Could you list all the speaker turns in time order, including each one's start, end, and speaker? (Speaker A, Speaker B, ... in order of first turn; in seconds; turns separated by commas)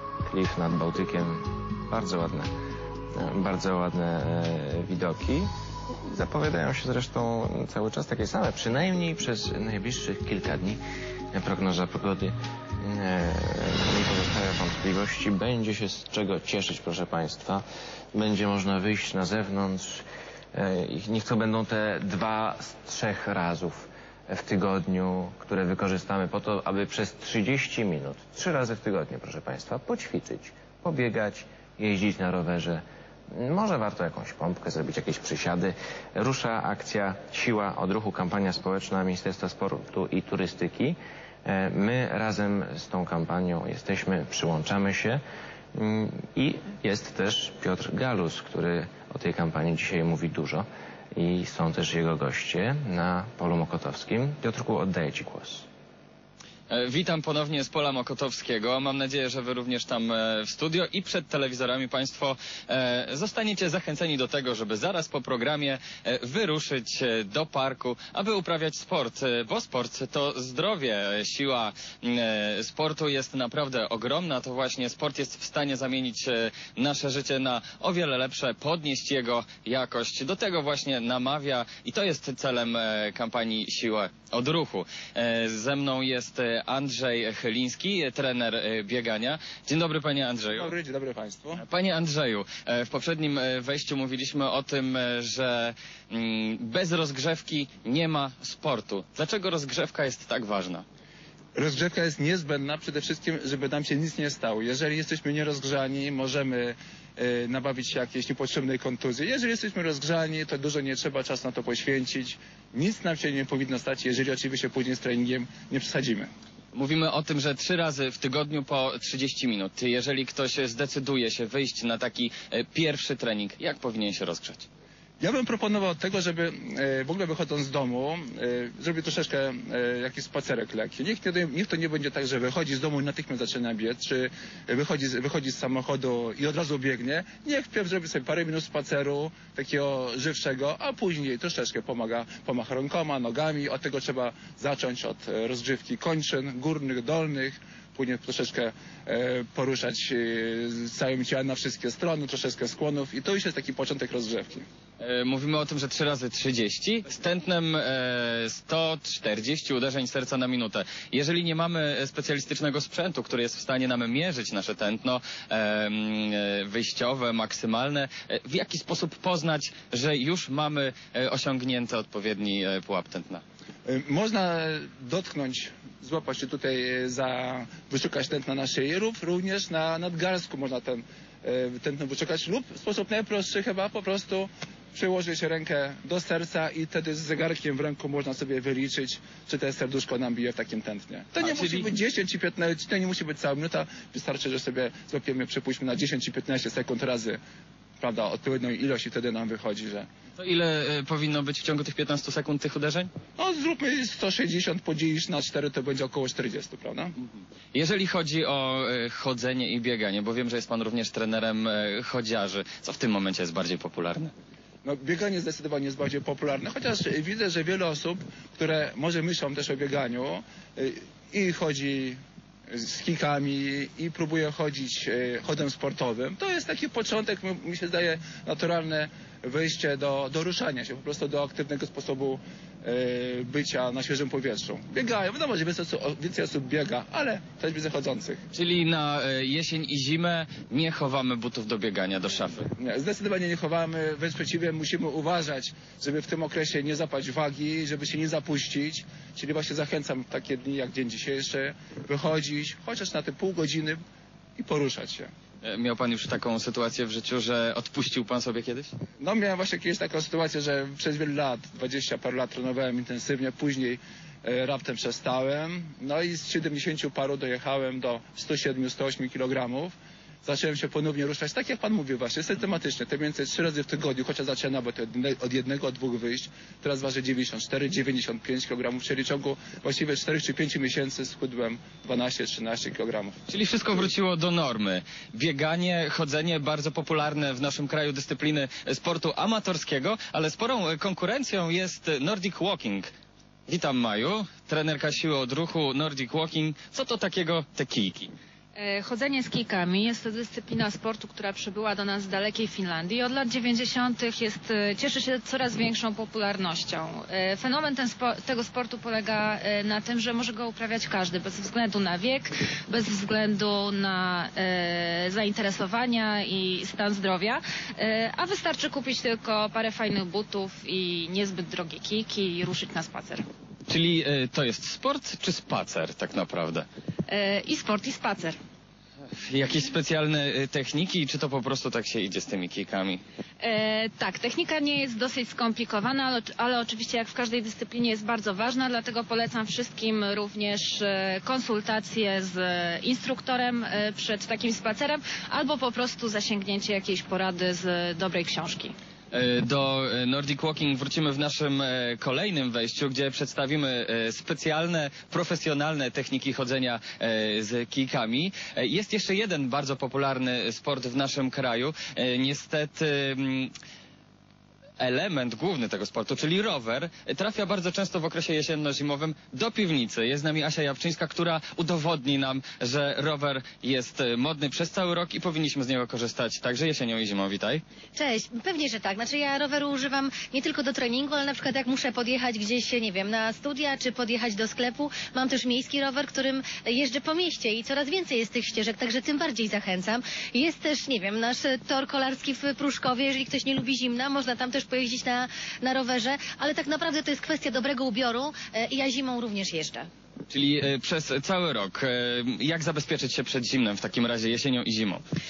Speaker A: 0.2-2.5, Speaker A: 3.1-5.5, Speaker A: 6.1-10.8, Speaker A: 11.3-45.2, Speaker A: 45.7-55.7, Speaker B: 56.7-90.7, Speaker C: 90.5-91.6, Speaker B: 91.6-100.8, Speaker C: 101.5-116.3, Speaker B: 116.7-124.7, Speaker C: 125.2-154.6, Speaker B: 155.0-173.4, Speaker C: 173.8-197.4, Speaker B: 191.4-191.9, Speaker C: 198.0-200.1, Speaker B: 200.4-203.1, Speaker C: 203.4-207.1, Speaker B: 207.7-214.3, Speaker C: 214.8-222.2, Speaker C: 222.7-238.4, Speaker B: 238.5-242.6, Speaker C: 242.8-254.0, Speaker C: 254.6-255.3, Speaker B: 255.6-258.9, Speaker C: 259.2-283.4, Speaker B: 283.5-293.1, Speaker B: 293.7-298.3, Speaker D: 298.8-323.4, Speaker B: 323.9-326.9, Speaker D: 327.3-328.6, Speaker B: 329.4-333.2, Speaker D: 333.6-348.9, Speaker B: 349.3-363.7, Speaker B: 365.0-377.8, Speaker E: 378.1-400.1, Speaker B: 400.5-405.2